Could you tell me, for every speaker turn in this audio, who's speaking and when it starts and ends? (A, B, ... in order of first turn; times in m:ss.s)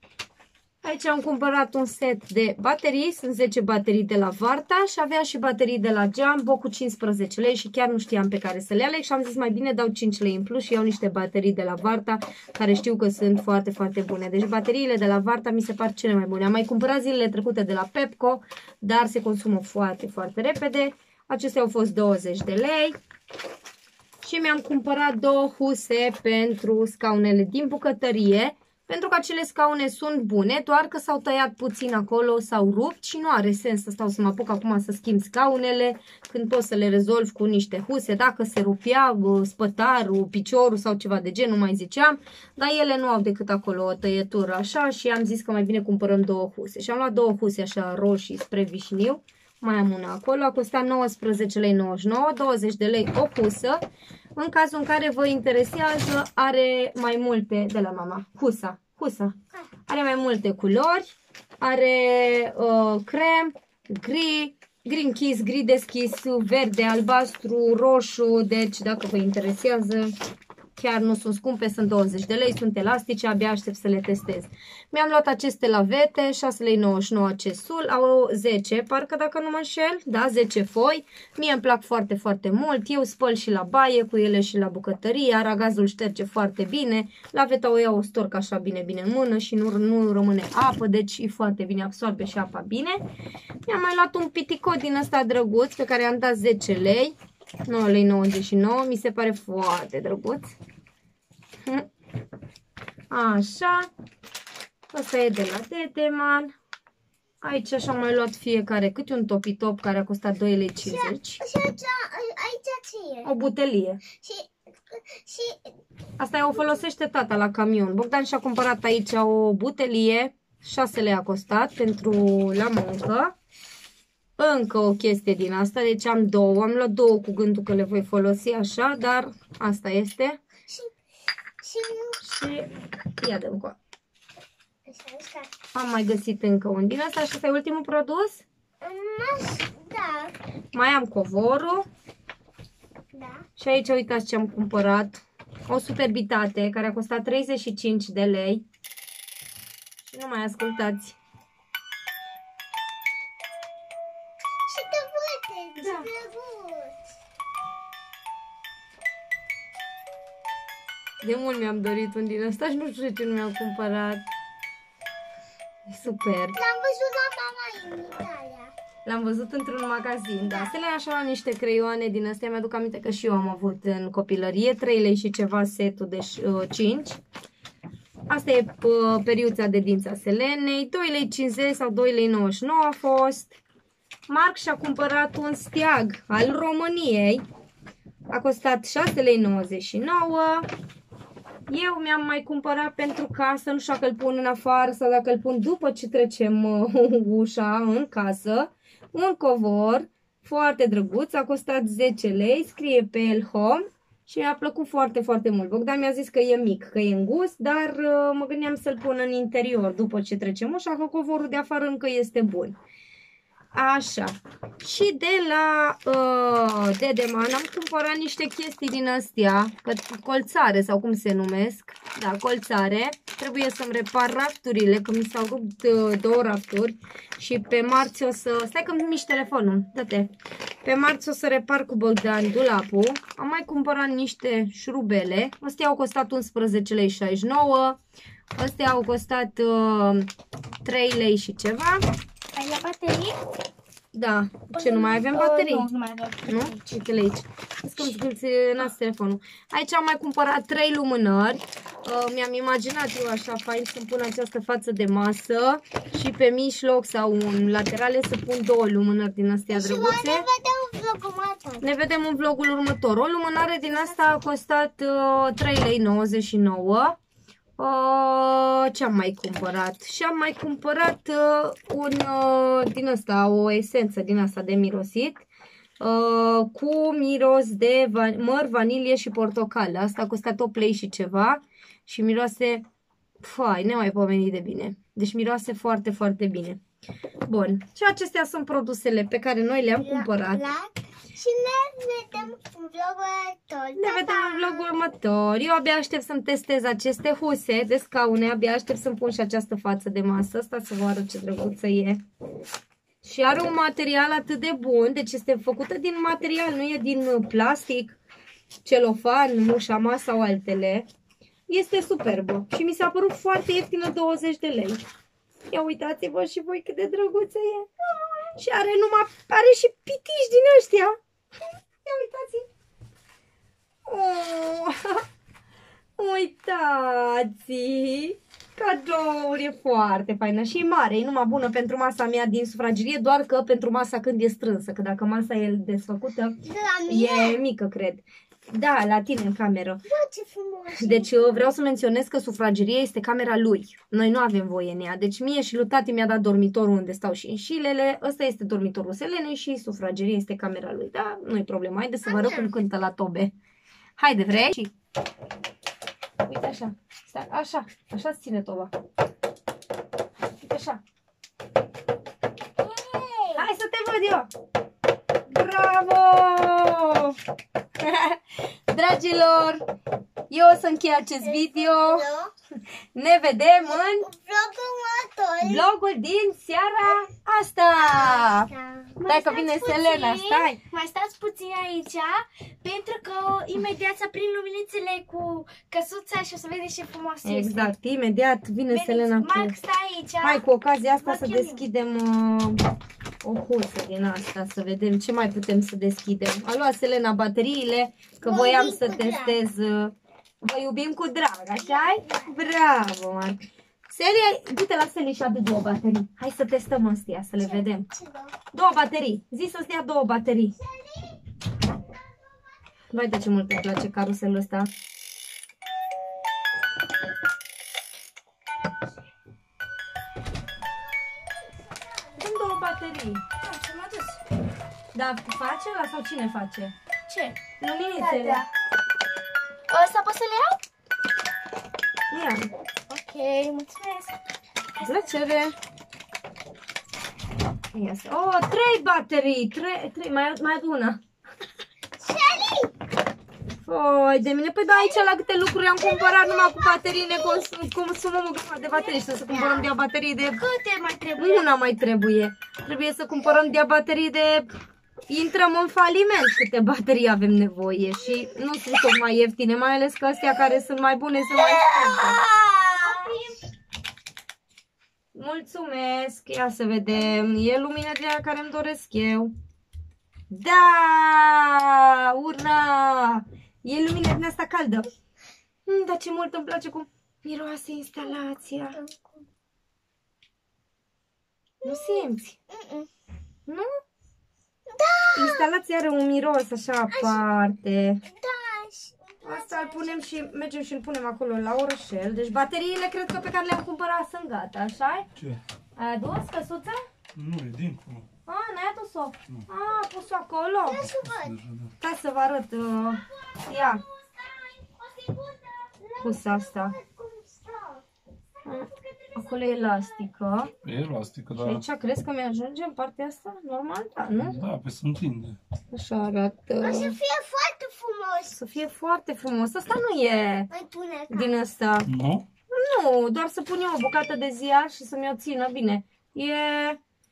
0:00.8-0:23.0 A
0:24.2-0:53.8 A
0:54.4-0:59.3 A
0:59.9-1:01.0 A
1:01.6-1:10.1 A
1:10.8-1:33.0 A
1:33.7-1:37.1 A
1:37.6-1:40.4 A
1:43.1-1:43.9 A
1:44.9-1:46.5 A
1:47.4-1:51.4 A
1:50.8-1:53.3 B
1:53.2-1:54.0 A
1:54.2-1:55.7 B
1:56.2-2:03.3 A
2:04.4-2:10.4 A
2:10.7-2:10.9 B
2:11.6-2:12.2 B
2:12.2-2:13.8 A
2:14.9-2:15.5 B
2:15.7-2:18.4 A
2:18.8-2:20.4 B
2:20.7-2:21.8 A
2:23.1-2:23.4 B
2:23.6-2:28.6 A
2:30.1-2:31.2 A
2:34.6-2:37.0 B
2:35.8-2:36.1 A
2:41.2-2:44.2 A
2:45.9-2:46.6 A
2:46.6-2:48.7 B
2:49.0-2:57.2 A
2:50.4-2:50.7 B
2:58.3-3:03.6 A
3:04.3-3:07.4 A
3:08.3-3:10.7 A
3:11.7-3:32.8 A
3:33.7-3:50.3 A
3:50.8-3:58.0 A
3:58.5-4:00.3 A
4:00.8-4:02.0 A
4:02.5-4:03.4 C
4:04.1-4:05.9 A
4:04.7-4:07.0 C
4:06.5-4:20.4 A
4:19.7-4:21.8 B
4:21.8-4:27.2 A
4:27.8-4:35.4 A
4:36.0-4:42.8 A
4:43.4-4:46.8 A
4:47.4-4:50.6 A
4:50.0-4:55.0 B
4:54.0-5:02.2 A
5:03.2-5:08.2 A
5:08.8-5:11.1 A
5:11.7-5:15.0 A
5:15.7-5:17.9 A
5:18.5-5:21.2 A
5:22.0-5:22.6 A
5:24.1-5:25.2 A
5:26.2-5:40.0 A
5:36.6-5:37.6 B
5:40.0-5:41.7 B
5:41.0-5:53.5 A
5:52.2-5:52.7 B
5:54.2-5:54.9 A
5:56.4-5:58.9 A
6:00.6-6:01.0 A
6:02.8-6:03.6 B
6:03.5-6:04.5 A
6:05.5-6:07.3 A
6:08.0-6:09.8 A
6:10.5-6:12.2 A
6:11.4-6:12.5 B
6:13.1-6:14.3 A
6:13.8-6:15.9 B
6:15.6-6:18.7 A
6:18.0-6:19.1 B
6:19.2-6:27.9 C
6:19.2-6:20.8 A
6:27.4-6:29.7 A
6:28.9-6:30.6 C
6:30.4-6:32.8 A
6:31.2-6:31.8 C
6:33.4-6:48.1 A
6:38.4-6:39.6 B
6:41.8-6:42.5 B
6:47.6-6:48.6 B
6:48.7-6:50.7 A
6:50.8-6:51.4 B
6:52.2-6:52.4 B
6:53.1-6:54.9 A
7:01.4-7:02.2 B
7:02.4-7:03.4 A
7:03.6-7:04.4 C
7:05.1-7:06.9 A
7:07.3-7:07.6 C
7:07.8-7:08.6 A
7:08.2-7:08.7 C
7:09.9-7:10.8 C
7:12.3-7:12.7 A
7:13.1-7:14.4 C
7:15.0-7:15.3 C
7:15.0-7:15.8 A
7:17.9-7:21.2 A
7:22.2-7:22.9 B
7:23.8-7:30.6 A
7:24.9-7:25.3 B
7:26.0-7:27.6 B
7:28.8-7:29.9 B
7:30.5-7:31.6 C
7:31.4-7:34.7 A
7:35.3-7:42.4 A
7:41.5-7:43.6 B
7:43.0-7:43.3 A
7:45.3-7:49.5 A
7:50.5-7:55.1 A
7:55.8-7:59.0 A
7:58.9-7:59.4 B
8:01.8-8:03.1 B
8:01.8-8:02.5 A
8:04.9-8:05.7 B
8:05.4-8:08.2 A
8:07.1-8:07.4 B
8:08.2-8:10.4 B
8:09.4-8:15.2 A
8:16.0-8:17.0 A
8:17.3-8:18.3 D
8:18.4-8:21.0 A
8:20.8-8:21.6 B
8:21.0-8:21.9 D
8:22.0-8:24.0 A
8:23.4-8:28.0 B
8:26.2-8:26.9 A
8:28.6-8:30.7 A
8:29.1-8:29.9 B
8:30.8-8:31.8 D
8:31.6-8:34.6 A
8:34.3-8:35.6 D
8:35.9-8:37.1 A
8:36.8-8:38.6 B
8:38.5-8:40.7 A
8:40.7-8:41.5 B
8:41.3-8:42.1 A
8:42.1-8:42.4 D
8:42.7-8:47.0 A